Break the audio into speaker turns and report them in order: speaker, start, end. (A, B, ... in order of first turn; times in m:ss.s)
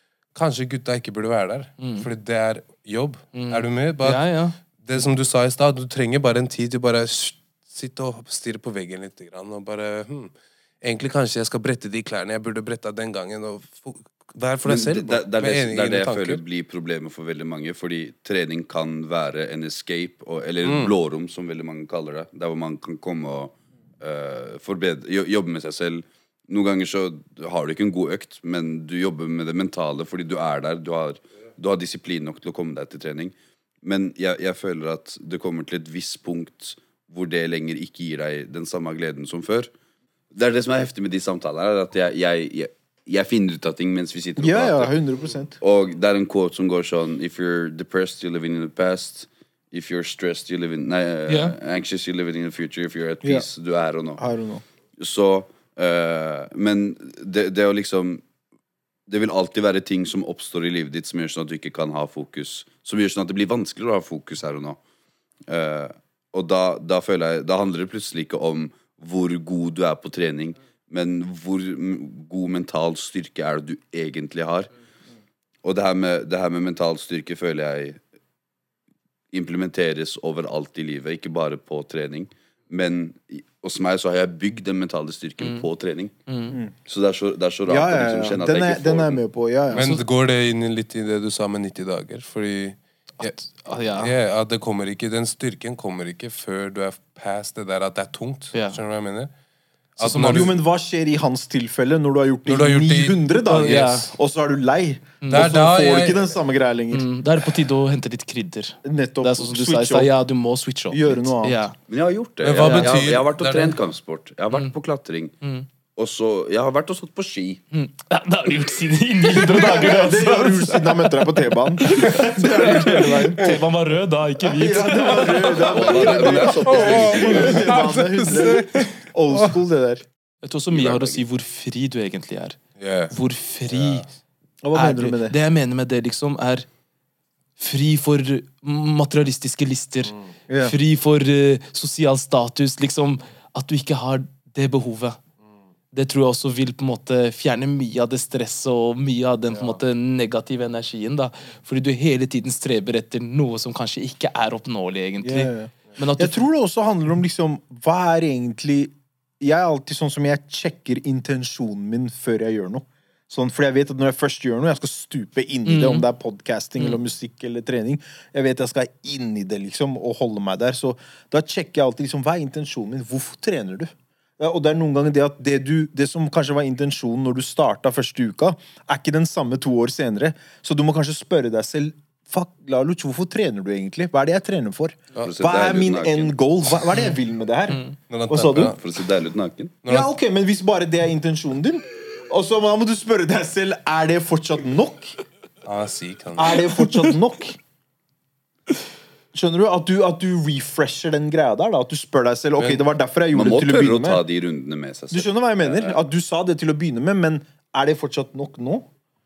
0:00.3-0:04.3 A
0:01.8-0:02.1 B
0:03.3-0:04.6 B
0:04.8-0:16.4 A
0:14.6-0:39.7 C
0:20.6-0:20.9 A
0:40.3-0:44.9 C
0:44.4-0:45.6 D
0:45.6-0:54.2 C
0:51.3-0:51.6 B
0:54.2-0:54.6 D
0:55.0-0:58.2 C
0:59.1-1:04.8 C
1:05.5-1:14.7 C
1:15.6-1:18.0 C
1:19.3-1:26.1 C
1:26.3-1:26.6 B
1:26.9-1:29.2 C
1:27.7-1:29.9 D
1:29.7-1:33.4 A
1:29.8-1:30.0 B
1:33.2-1:34.1 B
1:34.0-1:39.3 A
1:40.0-1:40.5 B
1:40.0-1:40.5 A
1:40.1-1:47.1 D
1:42.5-1:44.0 A
1:43.4-1:44.1 B
1:45.2-1:45.5 B
1:45.3-1:46.2 A
1:46.9-1:51.8 B
1:48.8-1:50.1 D
1:50.9-1:51.6 D
1:51.9-1:55.3 C
1:52.4-1:53.8 A
1:52.6-1:53.1 B
1:55.4-1:55.7 B
1:56.0-1:57.6 C
1:57.7-2:05.7 B
1:59.3-2:03.6 D
2:04.4-2:10.0 D
2:05.5-2:07.8 C
2:06.0-2:09.6 A
2:10.4-2:12.6 B
2:10.7-2:11.2 C
2:12.8-2:13.1 A
2:13.1-2:14.1 B
2:13.7-2:14.0 A
2:14.6-2:15.4 D
2:14.7-2:16.7 B
2:17.6-2:25.2 B
2:20.5-2:20.8 D
2:25.9-2:36.5 B
2:29.5-2:29.8 A
2:35.2-3:08.8 D
2:45.7-2:46.0 B
3:05.2-3:06.4 C
3:08.1-3:08.8 A
3:08.7-3:09.8 C
3:09.8-3:10.1 A
3:09.9-3:15.2 D
3:15.6-3:16.6 A
3:16.4-3:17.6 D
3:19.3-3:24.2 D
3:23.3-3:26.0 C
3:25.1-3:28.9 D